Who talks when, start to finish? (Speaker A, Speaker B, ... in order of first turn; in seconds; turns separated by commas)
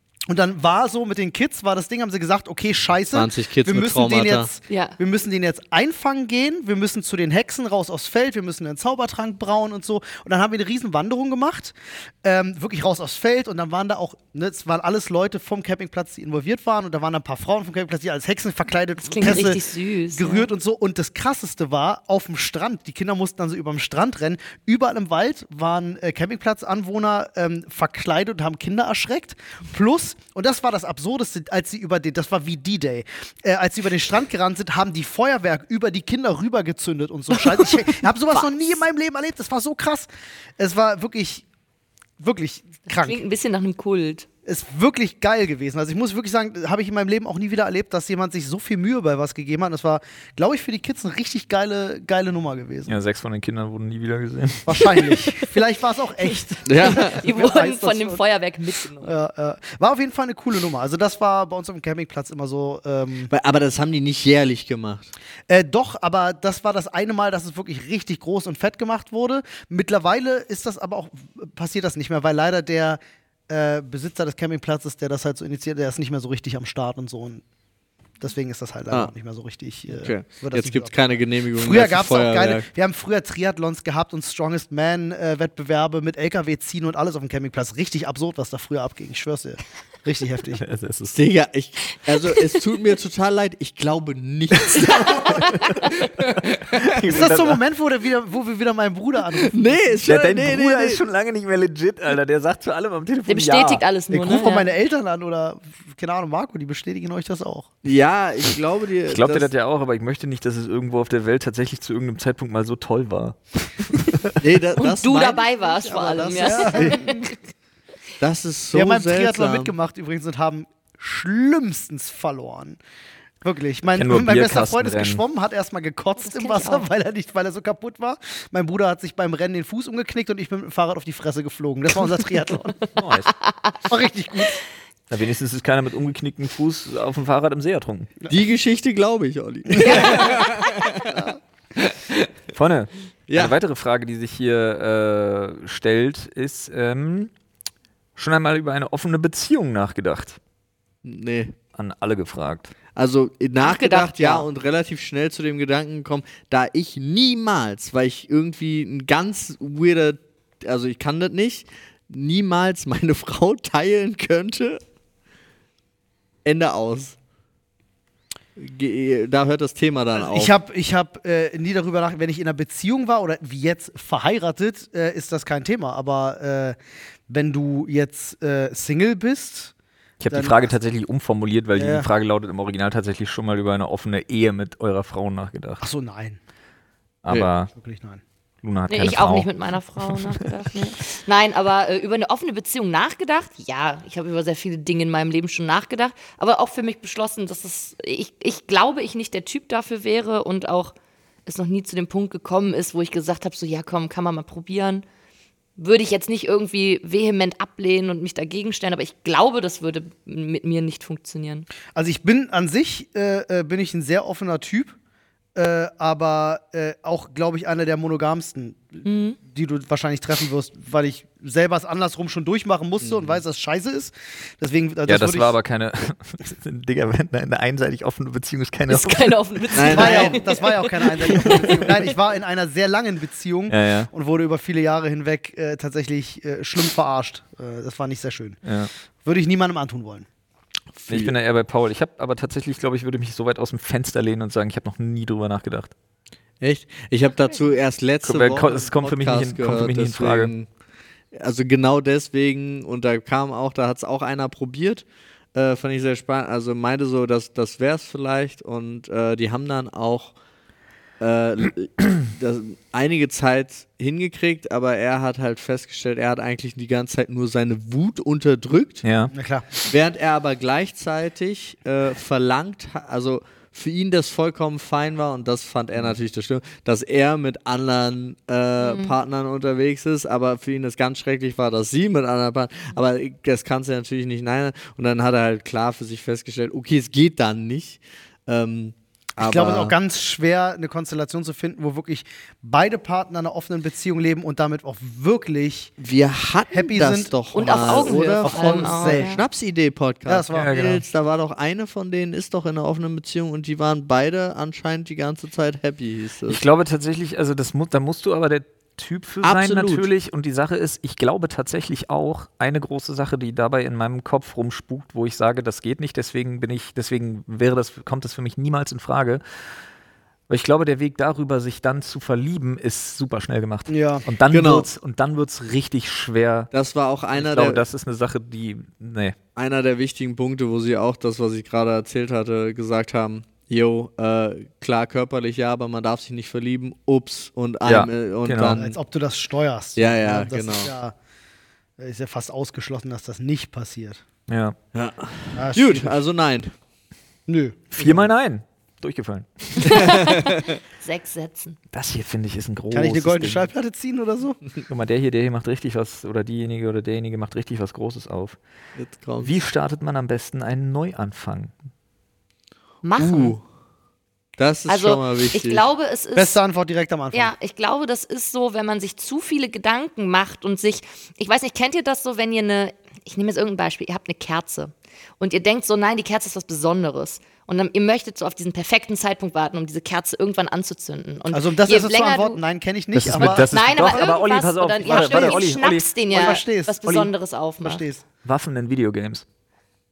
Speaker A: 0.3-41.5, Speaker B: 3.1-4.5, Speaker C: 4.7-5.0, Speaker C: 19.0-20.5, Speaker C: 37.6-38.7, Speaker A: 42.2-43.2, Speaker C: 42.9-44.3, Speaker A: 44.5-52.9, Speaker D: 52.9-54.9, Speaker A: 54.6-58.2, Speaker B: 56.7-57.2, Speaker C: 56.8-59.1, Speaker A: 59.0-63.3, Speaker B: 63.3-65.1, Speaker A: 65.5-77.4, Speaker A: 78.2-90.6, Speaker B: 79.9-82.7, Speaker D: 90.5-91.2, Speaker B: 91.1-97.0, Speaker D: 94.8-97.6, Speaker A: 97.1-100.1, Speaker B: 99.4-101.0, Speaker D: 100.0-103.8, Speaker C: 103.3-104.7, Speaker A: 104.1-107.7, Speaker B: 107.8-109.5, Speaker D: 109.1-114.4, Speaker B: 114.4-116.9, Speaker C: 114.8-117.3, Speaker A: 116.3-117.3, Speaker B: 118.2-119.7, Speaker A: 118.7-122.8, Speaker A: 123.4-132.8, Speaker D: 124.0-125.2, Speaker C: 126.2-126.9, Speaker D: 133.0-133.3, Speaker C: 133.4-133.8, Speaker A: 133.9-134.6, Speaker D: 135.1-138.1, Speaker B: 138.3-141.2, Speaker A: 139.8-140.1, Speaker C: 139.8-141.1, Speaker B: 141.8-142.3, Speaker D: 142.5-147.3, Speaker B: 143.3-143.6, Speaker D: 148.2-150.4, Speaker B: 151.0-151.5, Speaker D: 151.8-152.7, Speaker B: 153.0-164.8, Speaker C: 153.6-154.5, Speaker B: 166.4-167.2, Speaker B: 168.6-170.5, Speaker A: 170.2-176.8, Speaker A: 177.3-179.7, Speaker D: 180.2-185.9, Speaker A: 180.3-180.7, Speaker A: 181.8-182.1, Speaker A: 185.8-186.4, Speaker D: 187.2-187.7, Speaker A: 187.7-188.2, Speaker D: 188.6-189.5, Speaker C: 188.9-200.9, Speaker C: 201.5-205.1, Speaker C: 205.8-211.7, Speaker A: 211.9-215.0, Speaker A: 215.6-225.6, Speaker C: 219.1-219.4, Speaker B: 223.0-223.4, Speaker D: 225.1-229.4, Speaker C: 228.9-232.0, Speaker B: 229.8-230.4, Speaker A: 229.9-238.6, Speaker D: 233.7-234.1, Speaker D: 238.7-238.9, Speaker A: 239.2-240.3, Speaker B: 241.0-241.3, Speaker D: 241.1-245.9, Speaker B: 246.6-250.7, Speaker D: 248.2-250.5, Speaker B: 251.3-255.0, Speaker B: 255.6-260.4, Speaker B: 261.2-269.0, Speaker D: 269.0-269.3, Speaker A: 269.3-269.7, Speaker B: 269.9-289.9, Speaker C: 278.8-279.1, Speaker A: 289.4-295.9, Speaker B: 296.0-306.6, Speaker A: 296.7-299.4, Speaker C: 297.5-299.4, Speaker A: 300.2-300.7, Speaker D: 300.5-301.1, Speaker D: 306.5-319.4, Speaker B: 309.4-310.1, Speaker D: 320.5-326.7, Speaker A: 323.9-324.2, Speaker B: 324.5-324.9, Speaker B: 326.7-327.8, Speaker D: 327.4-329.4, Speaker B: 329.6-338.9, Speaker D: 337.9-338.8, Speaker A: 338.8-341.1, Speaker B: 340.0-340.9, Speaker A: 342.0-344.2, Speaker D: 344.5-344.8, Speaker B: 344.9-346.7, Speaker A: 345.6-346.2, Speaker A: 347.5-348.3, Speaker D: 348.0-350.3, Speaker C: 349.8-351.8, Speaker B: 350.0-350.6, Speaker D: 351.9-353.7, Speaker A: 352.9-354.6, Speaker D: 354.9-358.6, Speaker B: 359.0-359.5, Speaker D: 359.4-361.8, Speaker C: 363.0-363.6, Speaker B: 363.2-363.6, Speaker B: 364.6-365.8, Speaker C: 364.9-366.6, Speaker A: 366.4-367.5, Speaker C: 367.3-382.6, Speaker A: 381.5-384.2, Speaker D: 383.1-386.1, Speaker C: 383.4-388.1, Speaker A: 385.1-385.7, Speaker A: 386.3-387.3, Speaker A: 387.8-388.2, Speaker D: 388.4-389.5